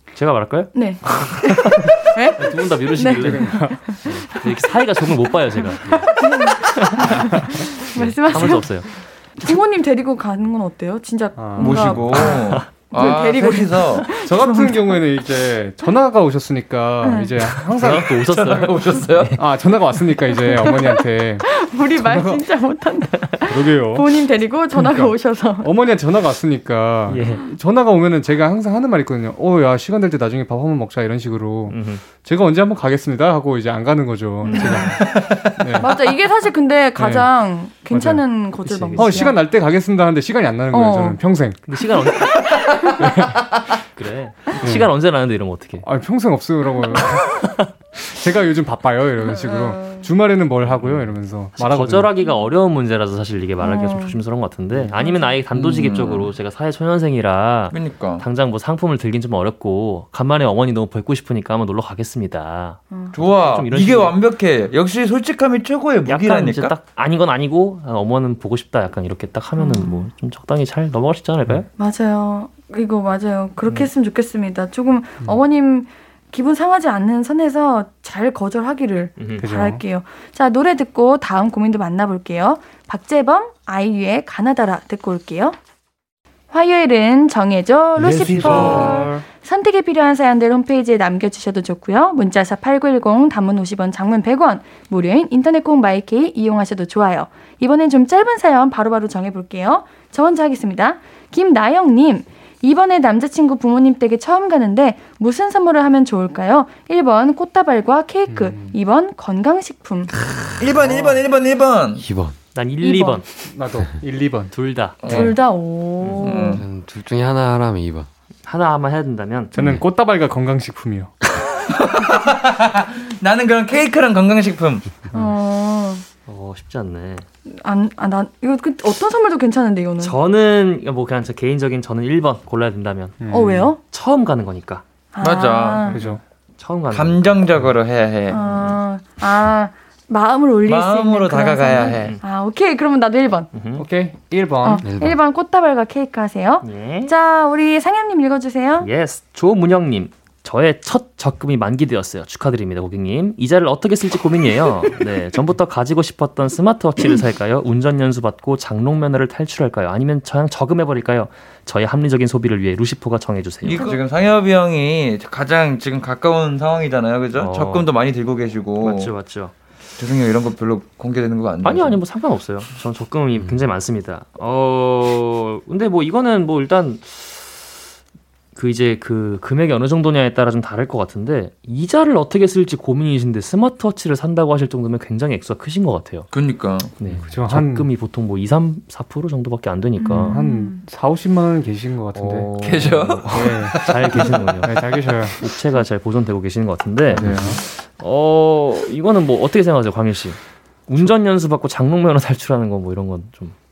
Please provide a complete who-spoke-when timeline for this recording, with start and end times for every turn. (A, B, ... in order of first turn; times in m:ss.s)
0:00.1-0:01.2 A
0:00.7-0:15.0 B
0:02.4-0:07.1 A
0:03.2-0:04.2 C
0:07.1-0:07.4 C
0:07.9-0:09.0 A
0:11.4-0:12.3 C
0:11.6-0:14.5 D
0:12.3-0:12.7 A
0:14.2-0:18.1 C
0:17.0-0:17.3 B
0:17.4-0:20.0 A
0:17.8-0:19.4 D
0:19.4-0:22.4 C
0:20.6-0:25.7 B
0:23.5-0:24.1 C
0:24.7-0:35.1 C
0:27.0-0:27.4 A
0:31.7-0:32.1 A
0:34.4-0:35.1 A
0:34.4-0:34.9 B
0:35.0-0:35.8 D
0:35.6-0:35.9 C
0:35.8-0:39.4 B
0:37.0-0:41.7 C
0:38.9-0:39.3 A
0:40.7-0:41.2 B
0:41.7-0:42.6 A
0:43.0-0:43.3 C
0:44.0-0:45.9 A
0:44.5-0:44.9 C
0:45.8-0:47.3 C
0:47.1-0:47.7 A
0:48.0-0:52.1 C
0:49.3-0:50.0 B
0:50.6-1:04.2 A
0:53.6-0:54.2 B
0:54.9-0:55.4 B
0:55.5-0:56.3 D
0:57.7-0:58.2 D
1:03.1-1:06.8 D
1:06.0-1:11.7 A
1:09.6-1:10.1 B
1:11.8-1:25.6 B
1:19.2-1:19.5 A
1:19.4-1:19.8 C
1:26.5-1:50.1 B
1:28.0-1:29.2 D
1:28.0-1:29.1 C
1:28.6-1:28.9 A
1:48.3-1:48.8 C
1:50.2-1:50.7 E
1:50.6-1:52.0 D
1:52.0-1:52.4 E
1:52.5-1:53.5 A
1:52.8-1:53.2 B
1:53.4-1:54.5 C
1:54.5-1:55.2 A
1:55.0-1:55.4 D
1:55.0-1:56.6 B
1:56.0-1:56.4 A
1:56.2-1:56.6 D
1:56.5-1:58.1 E
1:58.4-1:59.5 A
1:59.5-2:01.1 C
1:59.6-1:59.8 E
2:01.7-2:05.0 D
2:05.1-2:06.0 B
2:06.3-2:07.3 A
2:07.4-2:10.2 B
2:10.0-2:13.2 A
2:13.2-2:13.7 C
2:13.3-2:13.8 B
2:13.8-2:14.8 A
2:15.1-2:16.0 B
2:15.2-2:16.1 D
2:15.9-2:16.2 C
2:16.6-2:17.7 A
2:16.9-2:18.4 D
2:18.3-2:23.5 B
2:18.4-2:18.8 A
2:20.6-2:22.2 D
2:21.9-2:22.2 A
2:23.5-2:23.9 A
2:23.8-2:24.8 C
2:24.6-2:28.9 B
2:24.8-2:25.2 E
2:26.6-2:27.1 A
2:28.8-2:44.0 A
2:43.6-2:49.1 D
2:43.7-2:44.0 B
2:47.3-2:47.9 A
2:48.8-2:49.5 A
2:50.0-2:52.0 D
2:51.6-2:57.8 A
2:58.5-3:06.3 A
3:06.3-3:06.9 D
3:07.0-3:10.4 A
3:07.3-3:07.9 C
3:10.0-3:10.8 B
3:10.3-3:12.5 C
3:12.1-3:23.5 A
3:12.6-3:15.0 D
3:13.3-3:13.9 C
3:14.6-3:15.4 C
3:17.1-3:17.6 C